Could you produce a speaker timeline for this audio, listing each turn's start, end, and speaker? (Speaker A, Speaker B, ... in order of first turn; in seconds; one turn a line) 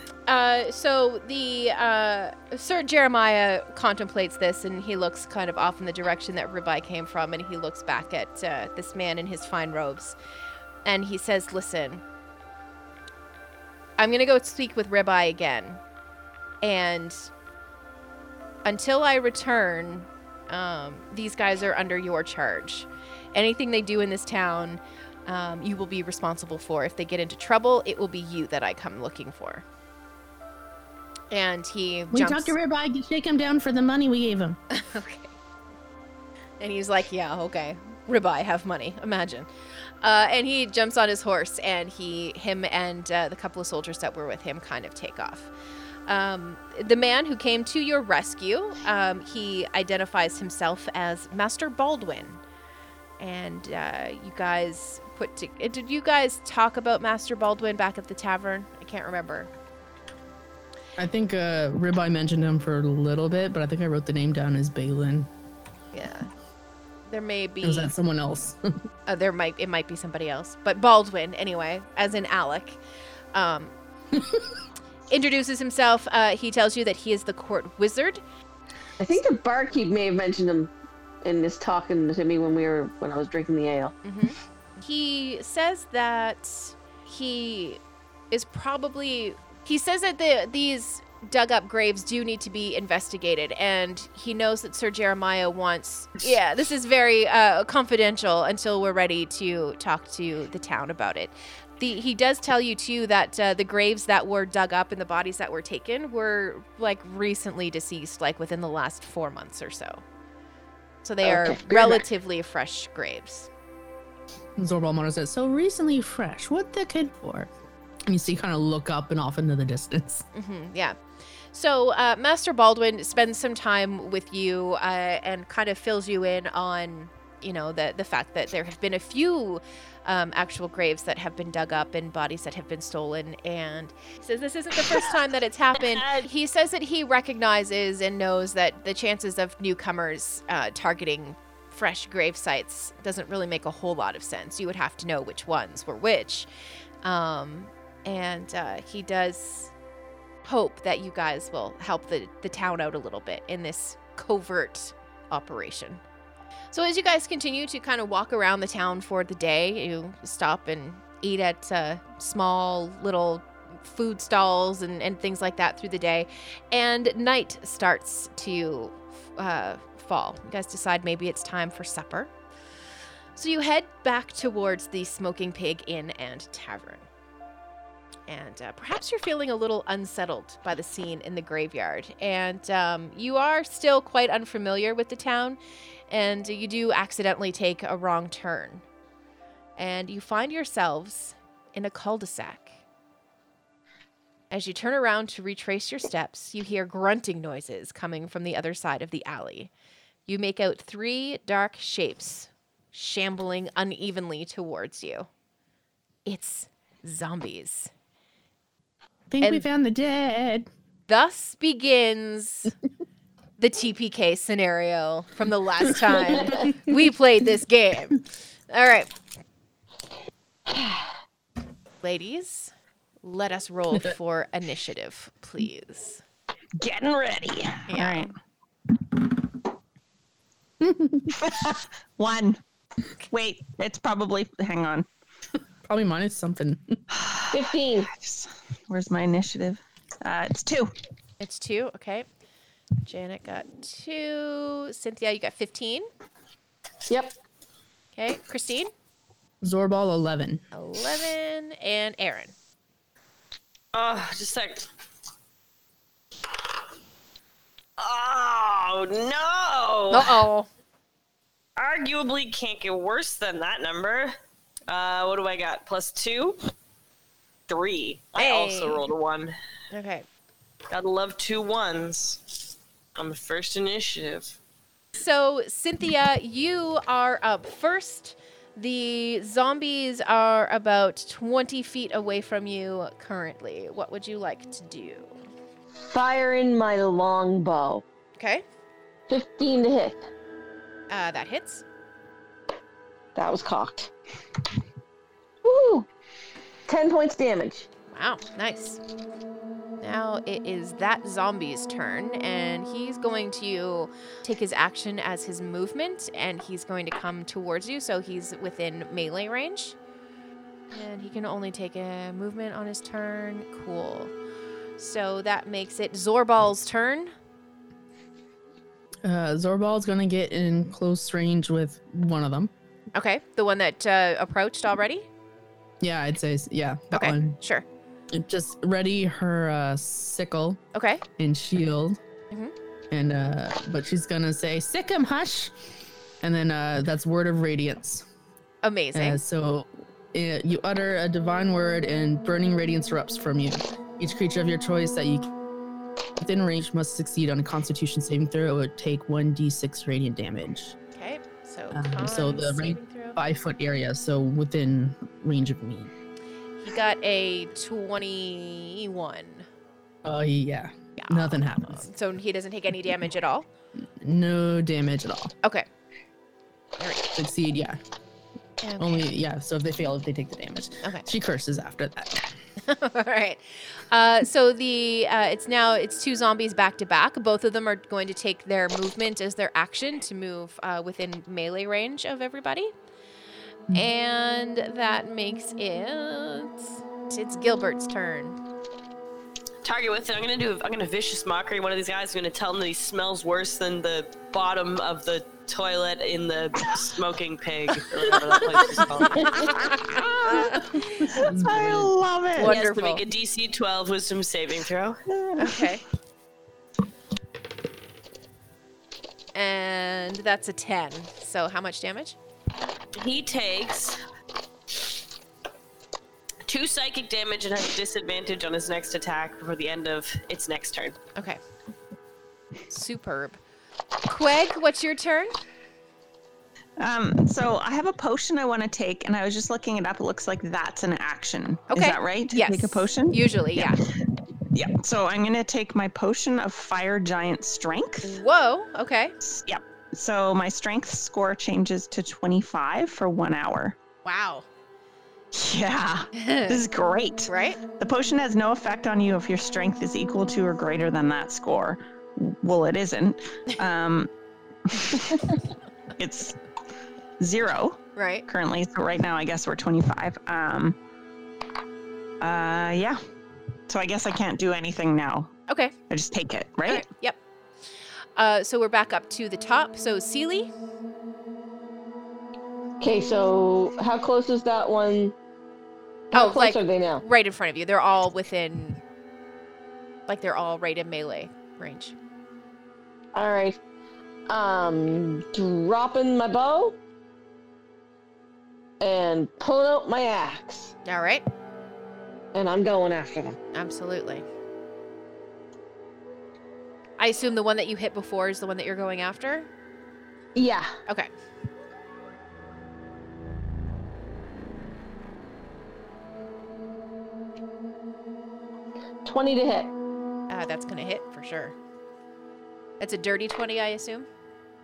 Speaker A: 0.3-10.2
Speaker A: 10.8-12.0
Speaker A: 14.0-15.8
Speaker A: 16.6-17.3
Speaker A: 18.6-29.6
Speaker A: 31.3-32.6
Speaker B: 32.1-34.6
Speaker A: 34.7-35.4
Speaker A: 36.6-39.5
Speaker A: 40.0-45.5
Speaker A: 46.1-52.4
Speaker A: 53.2-59.5
Speaker B: 61.0-65.3
Speaker A: 65.9-66.3
Speaker A: 67.1-67.9
Speaker B: 67.6-68.8
Speaker A: 69.1-72.8
Speaker A: 73.3-73.8
Speaker B: 74.2-74.5
Speaker A: 75.1-78.2
Speaker C: 79.0-80.7
Speaker C: 81.2-83.9
Speaker A: 84.0-87.8
Speaker A: 88.3-110.0
Speaker A: 111.0-113.5
Speaker C: 111.2-112.0
Speaker B: 114.6-117.5
Speaker B: 118.1-120.3
Speaker A: 120.3-121.0
Speaker A: 121.5-146.5
Speaker D: 135.9-136.2
Speaker A: 147.0-149.7
Speaker A: 150.4-156.0
Speaker A: 156.7-172.3
Speaker A: 173.4-177.1
Speaker A: 178.3-185.6
Speaker A: 186.1-188.8
Speaker A: 189.8-192.8
Speaker A: 194.5-199.7
Speaker A: 200.3-205.3
Speaker A: 206.3-207.9
Speaker B: 209.3-210.7
Speaker A: 211.1-212.7
Speaker A: 213.6-219.1
Speaker A: 222.0-222.7
Speaker A: 223.2-226.2
Speaker E: 226.8-228.3
Speaker A: 227.9-228.3
Speaker B: 230.8-231.4
Speaker E: 231.3-232.6
Speaker E: 233.2-235.1
Speaker B: 235.9-237.0
Speaker E: 237.1-240.9
Speaker C: 237.5-238.1
Speaker A: 241.4-242.3
Speaker A: 243.0-246.1
Speaker C: 247.1-247.4
Speaker A: 248.2-248.9
Speaker B: 249.6-250.6
Speaker A: 250.7-252.5
Speaker D: 253.9-254.9
Speaker D: 258.0-260.4
Speaker A: 260.1-260.7
Speaker D: 261.8-264.3
Speaker D: 264.9-266.6
Speaker D: 267.7-269.5
Speaker A: 268.4-269.1
Speaker A: 269.9-270.2
Speaker D: 270.9-274.6
Speaker A: 275.2-285.4
Speaker C: 286.0-288.0
Speaker A: 288.4-288.6
Speaker C: 289.3-290.2
Speaker A: 291.1-291.8
Speaker C: 293.4-294.1
Speaker C: 295.6-296.1
Speaker C: 296.9-297.9
Speaker A: 298.1-299.0
Speaker A: 300.0-310.0
Speaker A: 310.9-314.3
Speaker A: 315.0-317.3
Speaker B: 319.2-322.7
Speaker A: 323.1-325.3
Speaker B: 326.0-327.6
Speaker A: 327.1-327.9
Speaker B: 328.3-330.8
Speaker A: 330.9-331.2
Speaker B: 331.4-332.2
Speaker B: 333.1-335.7
Speaker B: 336.4-338.2
Speaker A: 338.8-339.4
Speaker B: 339.1-345.5
Speaker B: 346.4-351.0
Speaker A: 351.1-353.4
Speaker B: 351.9-356.1
Speaker A: 356.8-359.7
Speaker B: 360.2-362.0
Speaker A: 361.2-363.7
Speaker B: 364.2-365.5
Speaker A: 367.0-367.3
Speaker B: 367.4-368.0
Speaker A: 368.8-369.3
Speaker B: 369.0-372.5
Speaker A: 372.8-382.9
Speaker A: 383.9-388.6
Speaker D: 389.8-399.6
Speaker A: 399.4-399.7
Speaker E: 399.5-402.8
Speaker A: 400.4-401.3
Speaker B: 401.0-402.1
Speaker A: 402.6-403.2
Speaker D: 402.6-405.2
Speaker E: 405.3-405.9
Speaker A: 405.6-406.0
Speaker A: 409.5-412.4
Speaker D: 413.1-414.2
Speaker D: 416.7-421.2
Speaker A: 422.9-423.6
Speaker A: 424.3-425.6
Speaker E: 427.0-438.4
Speaker A: 431.9-434.0
Speaker A: 438.2-439.4
Speaker E: 439.4-444.0
Speaker A: 444.2-444.7
Speaker E: 445.5-454.3
Speaker A: 446.4-446.9
Speaker A: 447.5-447.8
Speaker E: 454.9-455.6
Speaker E: 456.2-456.6
Speaker E: 457.4-461.0
Speaker A: 458.2-458.5
Speaker E: 462.4-463.2
Speaker E: 463.9-465.5
Speaker A: 465.7-465.9
Speaker E: 466.1-467.1
Speaker A: 466.9-467.4
Speaker A: 468.4-470.7
Speaker C: 473.0-475.3
Speaker C: 476.3-477.2
Speaker A: 476.3-479.0
Speaker A: 480.3-482.2
Speaker C: 483.4-483.8
Speaker C: 484.5-487.0
Speaker C: 489.0-490.9
Speaker A: 491.1-491.4
Speaker C: 492.5-493.6
Speaker A: 493.7-494.4
Speaker A: 497.2-499.7
Speaker C: 500.6-500.9
Speaker C: 509.2-509.9
Speaker A: 510.5-511.8
Speaker A: 513.0-514.3